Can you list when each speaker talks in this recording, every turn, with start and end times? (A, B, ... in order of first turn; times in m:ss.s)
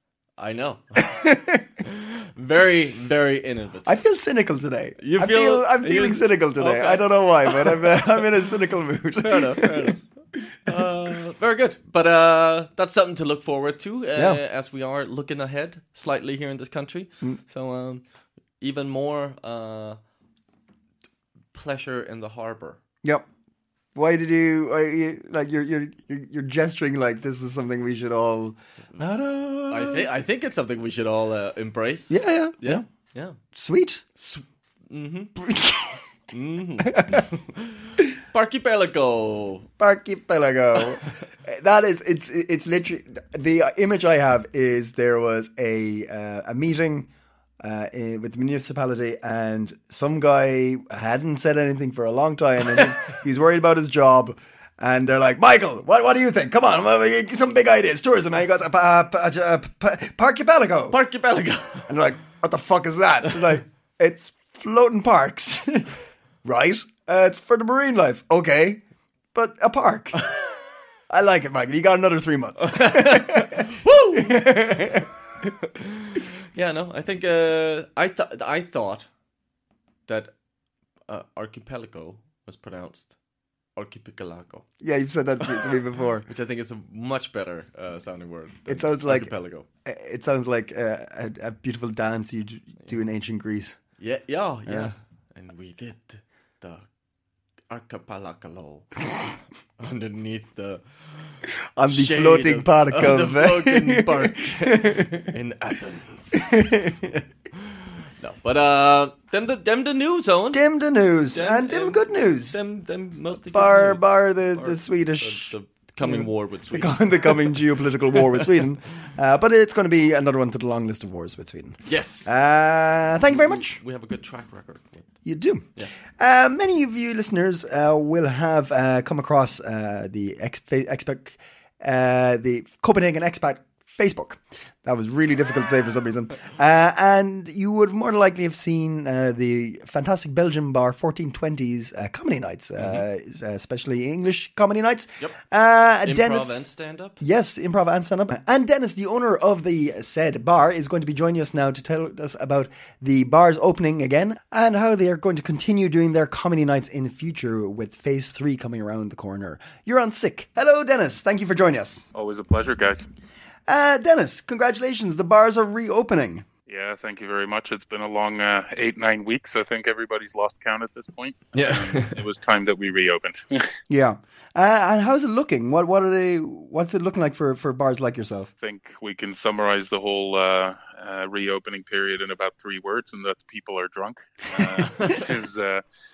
0:00.4-0:01.3 A
0:01.0-0:01.6 B
0:01.8-0:04.0 A
0:03.9-0:09.9 B
0:05.0-0:08.2 A
0:09.2-0:10.0 A
0:10.7-0:18.0 A
0:14.1-0:14.4 B
0:18.6-0:20.0 A
0:21.5-0:22.8 A
0:24.0-0:30.1 B
0:29.7-0:33.4 A
0:32.1-0:32.8 B
0:33.6-0:34.0 B
0:34.2-0:35.4 A
0:35.4-0:36.0 B
0:36.3-0:39.7 A
0:36.9-0:37.2 B
0:39.8-0:47.1 B
0:47.6-1:01.0 B
1:00.9-1:02.0 A
1:01.9-1:05.9 B
1:06.4-1:08.8 B
1:09.3-1:10.2 B
1:10.2-1:10.5 A
1:11.1-1:15.1 B
1:12.6-1:15.0 A
1:15.8-1:19.1 A
1:20.1-1:20.3 A
1:21.1-1:23.2 A
1:23.8-1:24.7 A
1:24.8-1:26.2 B
1:25.4-1:25.8 A
1:26.3-1:29.7 A
1:28.7-1:29.3 B
1:29.8-1:33.8 B
1:34.0-1:36.9 A
1:34.7-1:35.0 B
1:37.7-1:39.1 A
1:39.8-1:47.0 A
1:41.8-1:45.3 B
1:46.5-1:47.2 B
1:48.0-1:50.7 A
1:50.5-1:52.6 B
1:51.3-1:58.7 A
1:53.5-2:03.8 B
2:01.9-2:02.3 A
2:03.2-2:05.2 A
2:05.2-2:26.6 B
2:22.8-2:23.0 A
2:26.0-2:27.2 A
2:27.2-2:42.1 B
2:42.1-2:43.1 C
2:43.7-2:46.5 B
2:46.7-2:53.7 C
2:51.6-2:52.2 A
2:53.9-2:58.5 B
2:58.6-3:05.8 C